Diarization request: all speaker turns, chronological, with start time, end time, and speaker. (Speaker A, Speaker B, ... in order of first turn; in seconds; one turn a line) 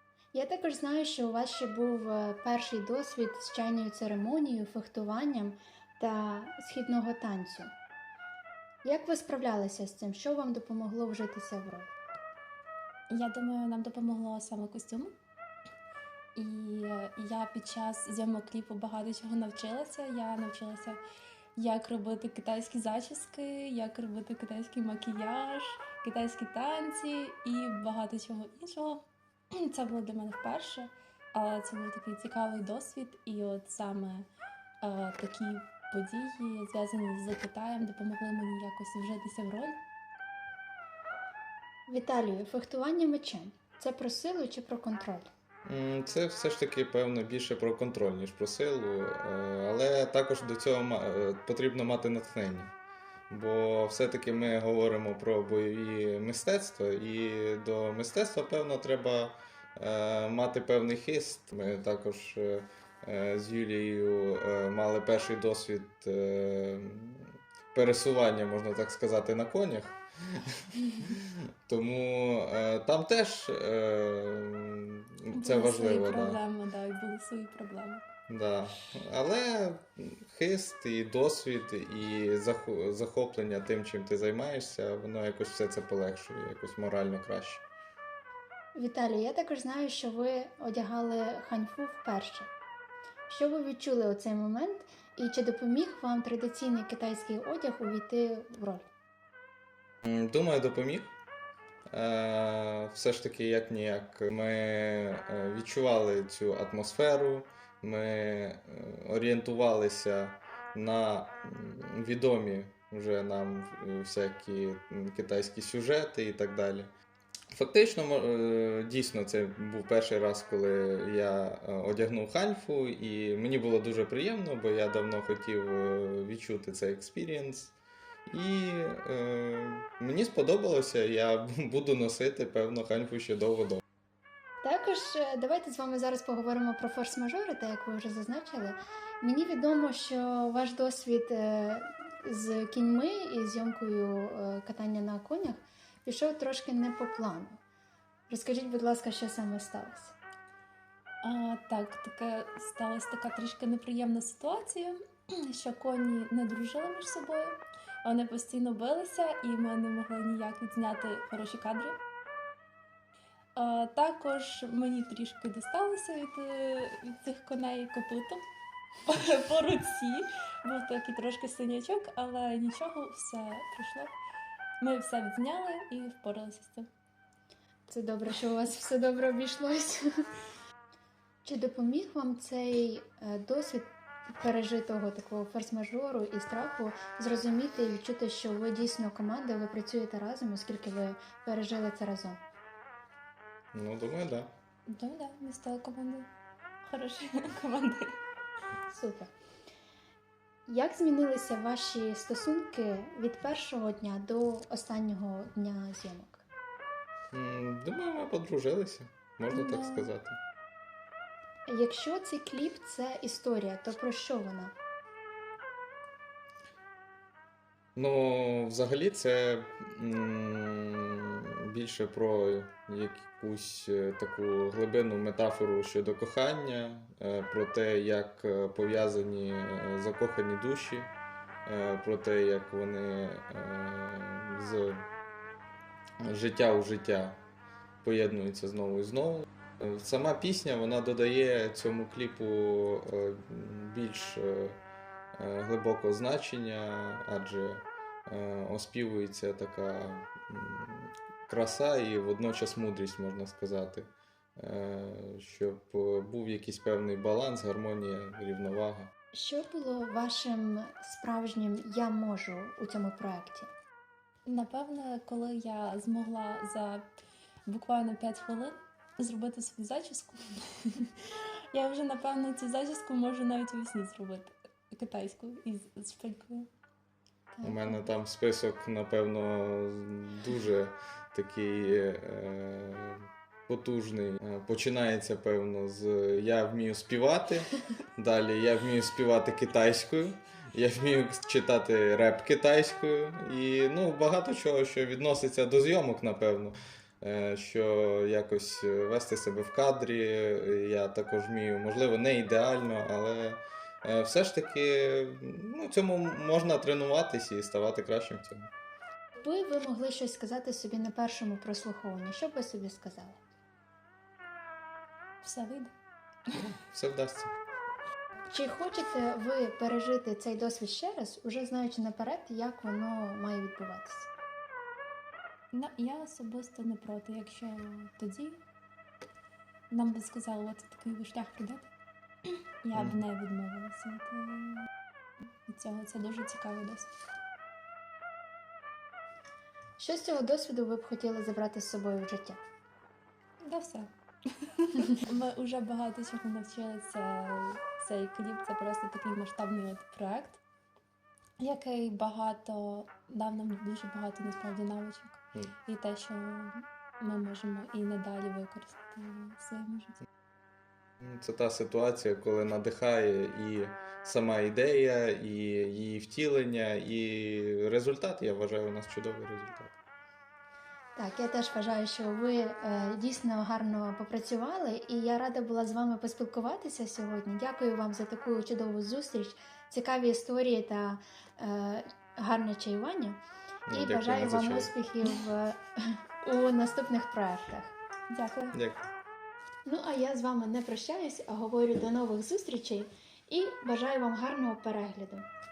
Speaker A: 0.3-7.7
Speaker A: 8.8-11.9
Speaker B: 13.1-15.1
Speaker B: 16.4-21.0
Speaker B: 21.6-29.0
Speaker B: 29.6-34.3
Speaker B: 34.8-39.8
Speaker A: 41.9-45.3
Speaker C: 45.7-52.7
Speaker C: 53.3-76.4
Speaker B: 75.3-78.1
Speaker C: 78.3-87.7
Speaker A: 88.8-92.5
Speaker A: 93.3-98.9
Speaker C: 100.0-101.1
Speaker C: 101.9-116.9
Speaker C: 117.5-127.8
Speaker C: 128.3-133.8
Speaker A: 134.6-147.6
Speaker A: 148.3-150.2
Speaker B: 151.2-155.0
Speaker B: 155.5-162.0
Speaker B: 163.6-168.4
Speaker B: 169.1-174.1
Speaker B: 174.8-176.9
Speaker A: 177.9-180.0
Speaker A: 181.4-192.4
Speaker C: 193.7-194.5
Speaker B: 194.9-196.3
Speaker B: 196.8-198.2
Speaker A: 198.9-199.3
Speaker A: 200.7-206.4
Speaker C: 207.3-210.4
Speaker B: 209.5-210.1
Speaker A: 211.7-214.7
Speaker C: 218.0-231.1
Speaker C: 231.7-235.1
Speaker C: 236.2-237.4
Speaker C: 238.0-244.8
Speaker C: 245.3-259.1
Speaker A: 259.3-263.7
Speaker B: 264.5-267.1
Speaker B: 267.7-271.1
Speaker B: 271.7-276.7
Speaker A: 277.5-278.0
Speaker C: 277.6-308.7
Speaker A: 309.4-313.4
Speaker B: 315.4-315.9
Speaker C: 316.8-317.5
Speaker A: 318.5-324.3
Speaker B: 325.7-328.6
Speaker B: 329.9-331.9
Speaker B: 332.5-334.9
Speaker C: 332.9-333.2
Speaker B: 335.7-337.1
Speaker A: 340.0-342.6
Speaker B: 343.6-350.6
Speaker B: 351.6-360.2
Speaker C: 361.2-370.0
Speaker A: 371.2-385.8
Speaker C: 383.9-384.9
Speaker A: 386.4-387.9
Speaker B: 388.3-388.8
Speaker C: 388.7-389.1
Speaker A: 389.9-395.5